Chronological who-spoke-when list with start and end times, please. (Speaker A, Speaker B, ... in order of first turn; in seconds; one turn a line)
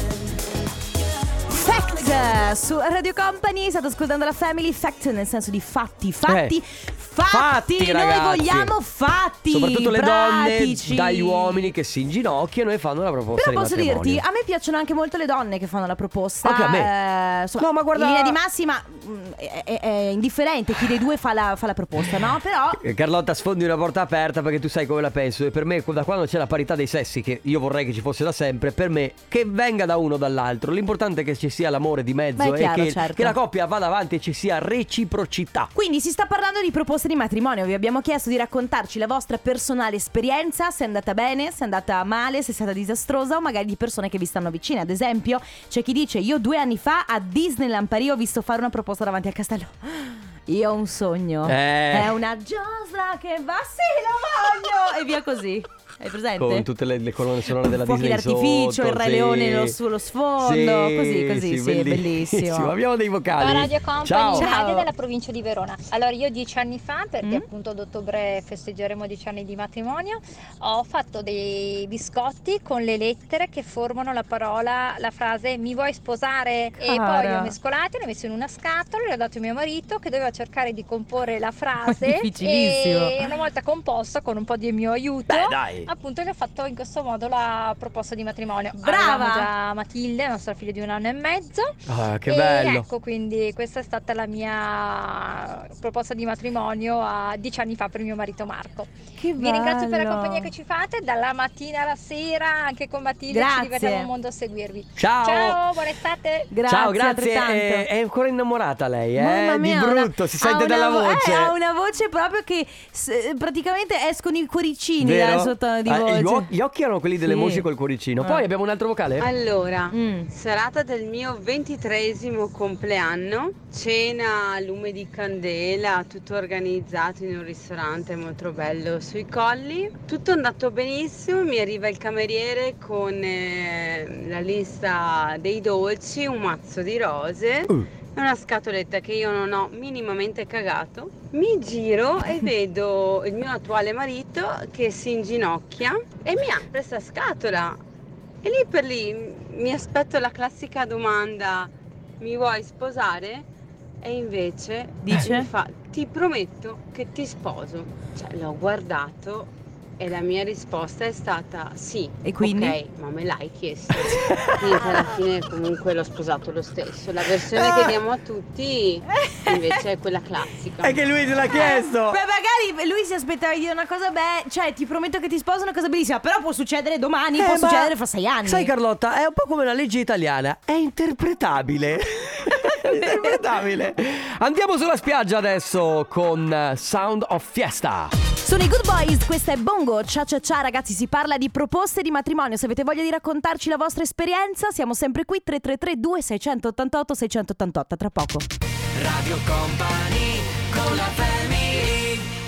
Speaker A: 1.5-11.7
Speaker B: 6.2-6.5
Speaker B: 7.3-8.7
Speaker B: 9.5-14.2
Speaker A: 13.3-22.8
Speaker B: 16.4-16.9
Speaker B: 17.6-18.4
Speaker B: 22.8-35.7
Speaker A: 32.4-33.4
Speaker A: 35.8-56.7
Speaker B: 51.5-52.2
Speaker B: 56.4-59.8
Speaker A: 57.6-62.8
Speaker B: 60.4-64.7
Speaker C: 63.4-106.5
Speaker A: 64.3-64.8
Speaker A: 76.8-77.5
Speaker A: 81.9-83.2
Speaker B: 85.3-85.9
Speaker A: 88.8-89.5
Speaker B: 91.9-92.9
Speaker A: 99.2-100.5
Speaker A: 103.3-104.1
Speaker B: 105.0-105.6
Speaker A: 106.5-107.9
Speaker B: 106.7-111.6
Speaker A: 109.2-116.5
Speaker B: 115.0-119.3
Speaker A: 117.2-117.7
Speaker A: 118.2-118.5
Speaker D: 119.2-147.8
Speaker A: 119.9-120.3
Speaker D: 148.4-153.5
Speaker D: 154.0-171.0
Speaker A: 155.0-155.5
Speaker A: 162.2-162.8
Speaker B: 164.2-164.6
Speaker A: 169.2-169.8
Speaker B: 170.8-172.2
Speaker A: 171.5-178.7
Speaker B: 177.4-188.1
Speaker A: 188.4-198.5
Speaker E: 198.9-202.3